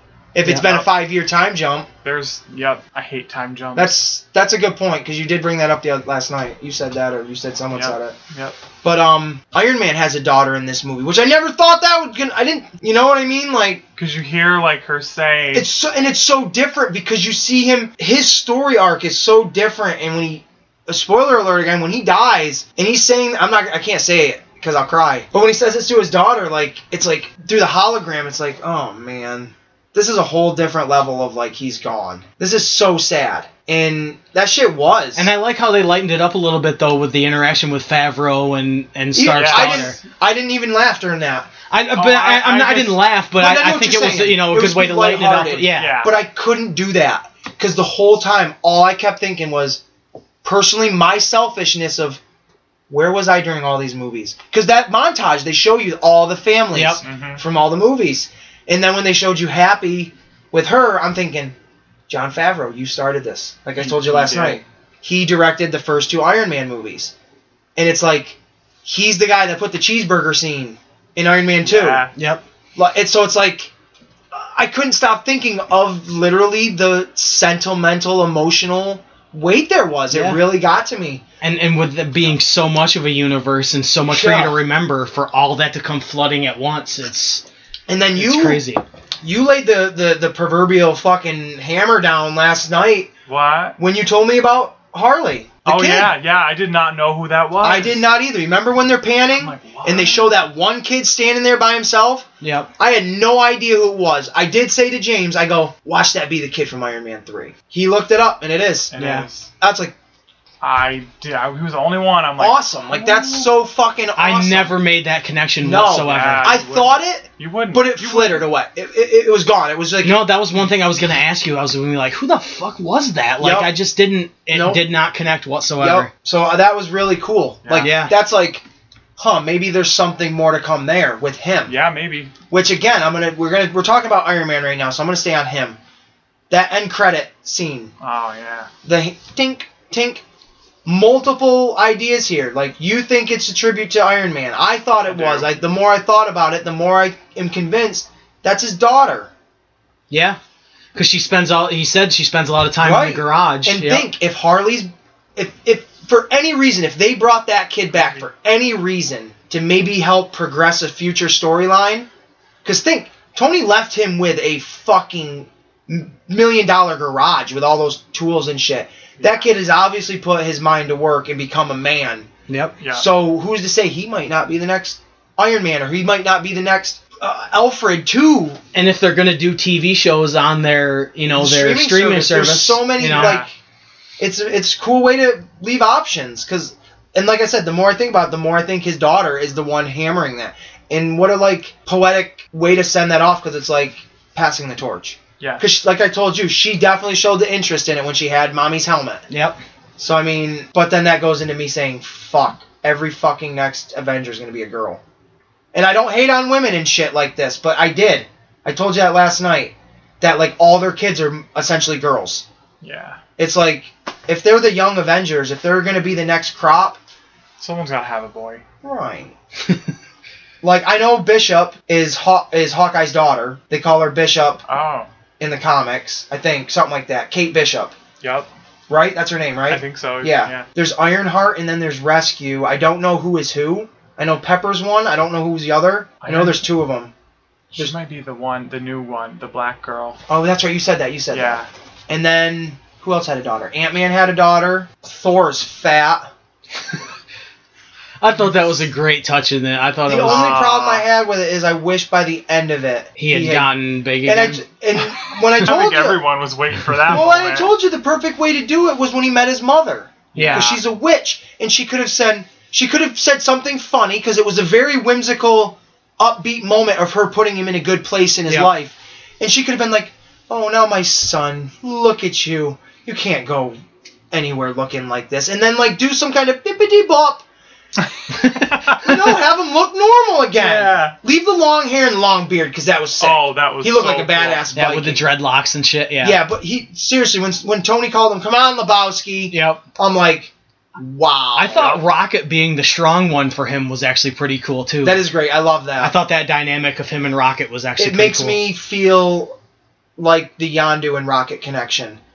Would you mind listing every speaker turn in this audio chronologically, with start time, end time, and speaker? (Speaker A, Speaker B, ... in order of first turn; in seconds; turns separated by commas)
Speaker A: 0.3-1.9, Speaker B: 0.4-0.7, Speaker C: 2.0-3.9, Speaker A: 3.8-8.1, Speaker C: 7.8-8.6, Speaker A: 8.8-13.8, Speaker C: 14.0-15.7, Speaker A: 15.5-35.3, Speaker B: 35.1-40.0, Speaker A: 39.1-41.5, Speaker C: 39.3-40.0, Speaker B: 41.7-46.0, Speaker C: 41.9-43.1, Speaker A: 43.3-49.8, Speaker C: 45.8-46.2, Speaker A: 50.4-52.2, Speaker A: 52.9-61.5, Speaker B: 56.7-57.0, Speaker C: 57.0-57.4, Speaker A: 62.1-67.1, Speaker C: 63.8-64.6, Speaker A: 67.8-72.1, Speaker C: 71.6-72.1, Speaker B: 72.1-72.4, Speaker A: 72.8-73.7, Speaker A: 74.3-81.2, Speaker B: 80.1-80.4, Speaker B: 81.4-87.4, Speaker A: 84.1-84.6, Speaker A: 87.9-88.6, Speaker B: 88.1-88.8, Speaker A: 89.2-93.1, Speaker C: 93.3-93.8, Speaker A: 93.8-96.1, Speaker C: 95.6-98.0, Speaker A: 97.6-102.3, Speaker C: 99.3-100.3, Speaker B: 102.4-102.7, Speaker A: 102.8-108.9, Speaker C: 108.9-109.5, Speaker B: 109.0-109.3, Speaker A: 109.6-109.9, Speaker C: 110.6-113.5, Speaker A: 112.4-114.8, Speaker B: 114.2-116.5, Speaker A: 115.6-120.2, Speaker C: 116.0-118.5, Speaker B: 120.0-126.1, Speaker A: 123.4-123.7, Speaker A: 124.5-124.8, Speaker A: 125.8-128.6, Speaker C: 127.6-127.9, Speaker B: 127.8-128.1, Speaker A: 129.2-131.8, Speaker C: 131.7-132.3, Speaker A: 132.5-135.8, Speaker A: 136.5-137.9, Speaker C: 138.0-138.7, Speaker A: 138.8-140.2, Speaker A: 140.8-149.3, Speaker C: 145.1-145.5, Speaker B: 150.1-150.4, Speaker B: 150.9-154.1, Speaker A: 152.8-162.1, Speaker C: 157.9-158.2, Speaker A: 162.6-172.3, Speaker C: 169.2-169.5, Speaker B: 172.5-172.8, Speaker C: 172.8-173.1, Speaker A: 172.9-178.6, Speaker B: 178.7-183.4, Speaker A: 181.3-183.5, Speaker C: 183.1-183.5, Speaker A: 184.2-199.2, Speaker C: 195.4-195.7, Speaker B: 199.3-199.6, Speaker A: 200.0-205.0, Speaker A: 205.7-212.4, Speaker C: 212.8-213.2, Speaker A: 213.4-217.0, Speaker C: 217.6-218.6, Speaker A: 218.8-219.3, Speaker A: 220.6-224.6, Speaker C: 224.7-225.1, Speaker A: 225.4-227.9, Speaker C: 228.2-228.5, Speaker A: 228.9-237.1, Speaker C: 229.7-230.7, Speaker C: 236.2-236.6, Speaker C: 237.7-240.2, Speaker A: 240.3-246.3, Speaker C: 241.3-241.7, Speaker B: 248.2-250.6, Speaker C: 248.4-248.7, Speaker A: 250.1-253.7, Speaker C: 250.2-251.1, Speaker B: 253.2-254.6, Speaker A: 254.2-256.2, Speaker C: 255.6-257.7, Speaker A: 257.1-273.8, Speaker C: 260.3-260.8, Speaker B: 260.4-260.7, Speaker A: 274.3-277.4, Speaker B: 278.3-278.8, Speaker C: 278.6-279.1, Speaker A: 279.0-285.3, Speaker C: 280.6-281.1, Speaker C: 283.2-284.6, Speaker B: 284.7-286.4, Speaker A: 286.2-292.0, Speaker B: 289.5-289.8, Speaker B: 291.6-295.2, Speaker A: 295.0-296.1, Speaker B: 296.0-298.6, Speaker A: 298.0-299.6, Speaker A: 300.2-302.2